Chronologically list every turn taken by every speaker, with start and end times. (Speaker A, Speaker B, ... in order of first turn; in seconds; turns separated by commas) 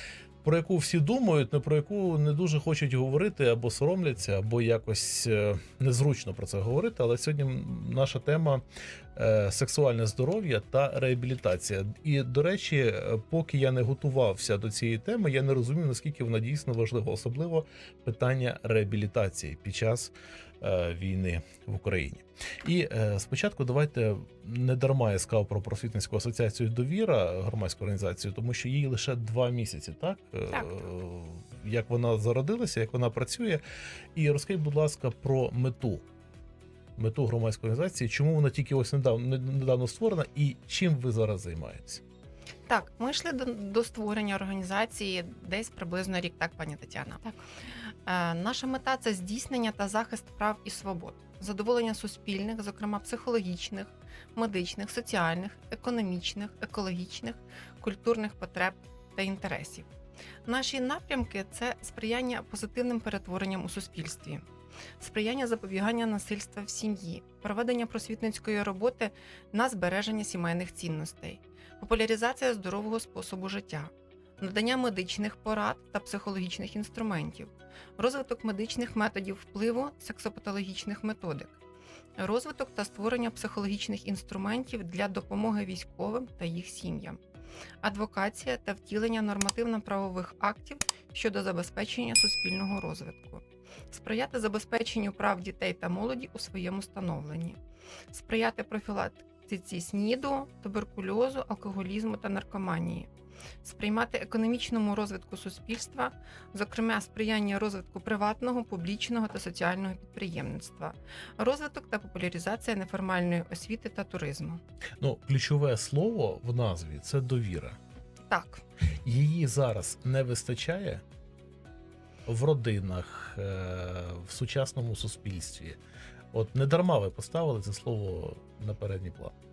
Speaker A: 0.4-8.6, Speaker A: 9.1-33.6, Speaker B: 30.5-30.8, Speaker A: 34.1-36.0, Speaker A: 37.0-42.0, Speaker B: 42.7-47.2, Speaker B: 48.0-59.9, Speaker B: 60.4-64.4, Speaker B: 65.0-81.6, Speaker B: 82.2-87.2, Speaker B: 87.8-97.6, Speaker B: 98.1-103.1, Speaker B: 103.6-114.6, Speaker A: 115.0-117.8, Speaker B: 118.3-118.6, Speaker A: 119.0-121.0, Speaker A: 122.2-125.8, Speaker A: 126.3-129.3